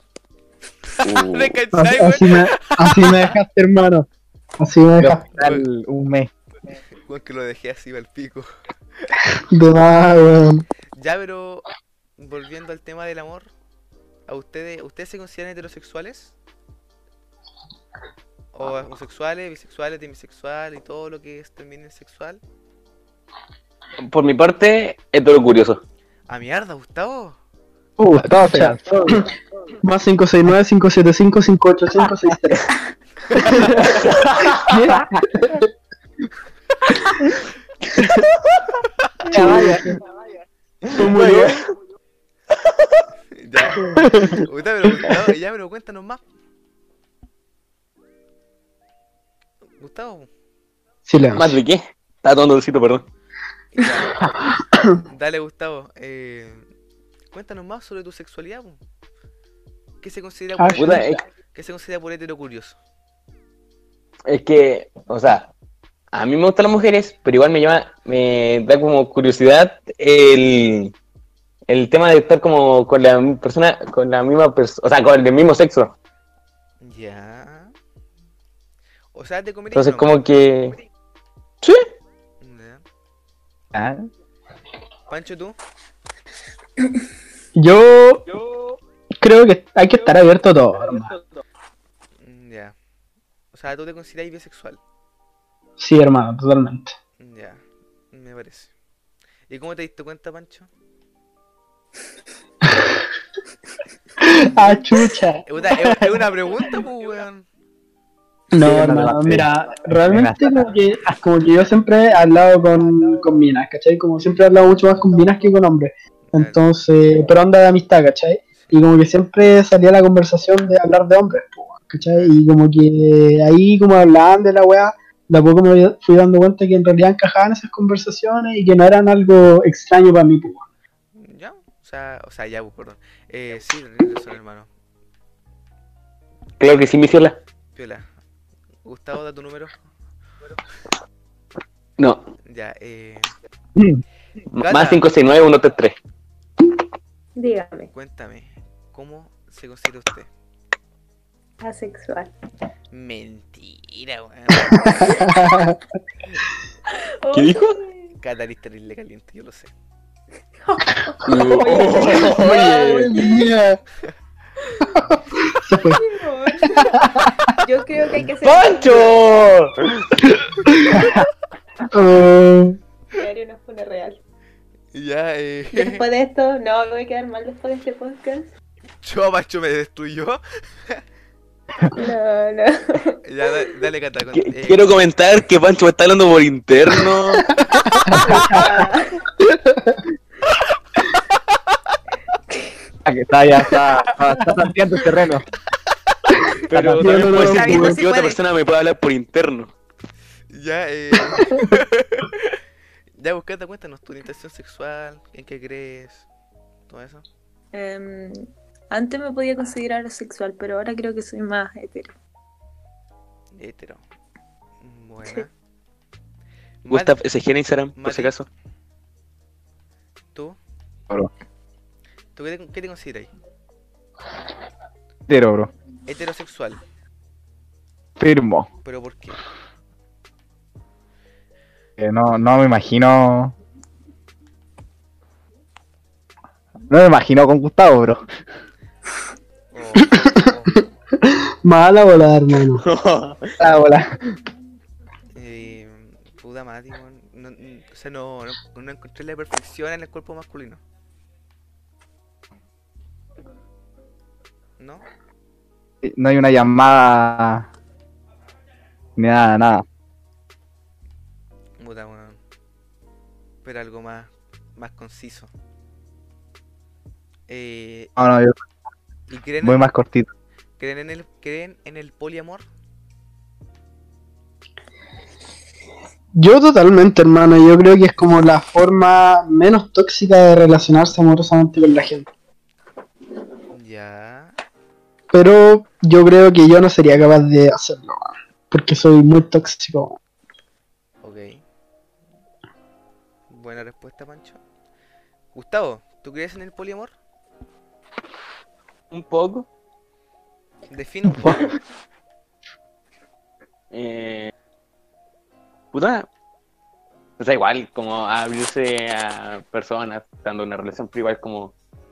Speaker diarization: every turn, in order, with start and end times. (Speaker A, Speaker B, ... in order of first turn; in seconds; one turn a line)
Speaker A: 0.9-3.3
Speaker B: 1.0-1.5
Speaker C: 1.7-4.1
Speaker C: 4.6-5.2
Speaker D: 5.0-6.3
Speaker A: 5.3-5.6
Speaker A: 7.1-8.4
Speaker C: 9.5-10.6
Speaker A: 10.9-11.7
Speaker A: 12.2-13.5
Speaker A: 14.3-16.3
Speaker A: 18.5-22.4
Speaker B: 24.0-25.8
Speaker A: 26.3-27.4
Speaker D: 28.0-29.3
Speaker C: 28.4-29.2
Speaker C: 29.8-32.7
Speaker C: 33.4-33.9
Speaker B: 33.8-34.6
Speaker C: 34.5-35.7
Speaker C: 38.0-38.2
Speaker C: 39.3-39.9
Speaker D: 39.3-39.9
Speaker B: 40.9-41.6
Speaker C: 40.9-41.6
Speaker A: 43.4-46.2
Speaker C: 43.9-44.4
Speaker A: 49.8-50.3
Speaker C: 51.0-51.6
Speaker B: 51.3-53.0
Speaker A: 53.7-54.2
Speaker C: 54.7-55.0
Speaker A: 55.1-56.6
Speaker A: 57.3-58.8
Speaker A: 60.0-62.8
Speaker C: 60.6-61.2
Speaker B: 60.8-61.2
Speaker B: 64.3-65.5
Speaker B: 66.1-70.9
Speaker B: 71.7-75.9
Speaker A: 76.8-77.7
Speaker A: 79.1-80.2
Speaker B: 79.7-80.8
Speaker A: 82.4-82.8
Speaker D: 83.7-84.1
Speaker A: 85.1-85.5
Speaker C: 87.5-88.2
Speaker C: 89.2-91.2
Speaker A: 92.2-92.7
Speaker A: 93.5-94.8
Speaker C: 95.8-96.9
Speaker A: 97.2-97.6
Speaker A: 98.1-98.7
Speaker A: 99.5-100.7
Speaker C: 104.2-106.0
Speaker A: 105.5-107.4
Speaker C: 108.5-130.7
Speaker D: 108.6-109.5
Speaker D: 110.0-111.1
Speaker A: 116.3-116.6
Speaker A: 131.1-134.7
Speaker B: 136.6-137.4
Speaker A: 137.7-138.1
Speaker A: 138.8-139.7
Speaker B: 142.0-142.2
Speaker A: 142.4-143.3
Speaker D: 143.8-144.0
Speaker B: 144.5-145.9
Speaker A: 144.6-145.1
Speaker E: 147.3-147.9
Speaker A: 147.9-150.3
Speaker E: 151.6-152.3
Speaker A: 152.9-155.3
Speaker E: 154.8-155.3
Speaker C: 155.0-155.8
Speaker E: 156.9-158.1
Speaker B: 157.3-157.8
Speaker A: 158.2-159.7
Speaker E: 160.6-163.5
Speaker B: 161.2-163.1
Speaker C: 161.8-163.8
Speaker C: 164.9-166.0
Speaker E: 165.8-169.3
Speaker C: 166.6-167.4
Speaker B: 168.4-170.3
Speaker C: 170.7-171.0
Speaker C: 171.9-172.8
Speaker E: 173.1-174.2
Speaker A: 174.9-176.0
Speaker E: 175.7-178.5
Speaker A: 179.0-181.0
Speaker E: 181.9-183.2
Speaker A: 183.2-185.0
Speaker B: 184.3-187.6
Speaker C: 187.7-188.6
Speaker D: 188.1-188.5
Speaker E: 188.1-189.2
Speaker C: 189.5-190.0
Speaker D: 193.0-195.4
Speaker B: 196.7-199.7
Speaker D: 196.7-197.1
Speaker C: 196.9-198.0
Speaker E: 197.6-198.4
Speaker A: 200.5-202.5
Speaker A: 203.2-206.3
Speaker A: 206.9-207.2
Speaker E: 207.7-212.1
Speaker A: 213.5-214.0
Speaker A: 214.8-215.5
Speaker A: 216.8-217.2
Speaker B: 216.9-218.5
Speaker A: 217.9-218.3
Speaker A: 222.3-223.3
Speaker D: 225.3-225.7
Speaker A: 226.1-226.8
Speaker D: 228.2-228.7
Speaker A: 228.8-229.4
Speaker D: 232.0-233.6
Speaker D: 236.9-238.2
Speaker A: 239.7-240.7
Speaker C: 240.7-242.8
Speaker B: 242.8-243.5
Speaker D: 243.6-244.2
Speaker A: 245.3-250.8
Speaker A: 254.8-255.0
Speaker D: 256.0-257.7
Speaker D: 259.2-259.8
Speaker A: 261.8-262.4
Speaker A: 263.6-265.5
Speaker A: 267.5-268.1
Speaker D: 268.2-268.6
Speaker A: 269.3-269.9
Speaker D: 269.6-270.3
Speaker A: 270.8-272.6
Speaker C: 276.4-282.3
Speaker A: 283.7-284.6
Speaker C: 285.3-290.2
Speaker A: 291.2-291.6
Speaker A: 293.5-294.6
Speaker A: 295.5-297.1
Speaker B: 299.1-299.6
Speaker A: 300.9-301.7
Speaker B: 303.9-304.5
Speaker B: 305.9-306.3
Speaker B: 307.4-311.7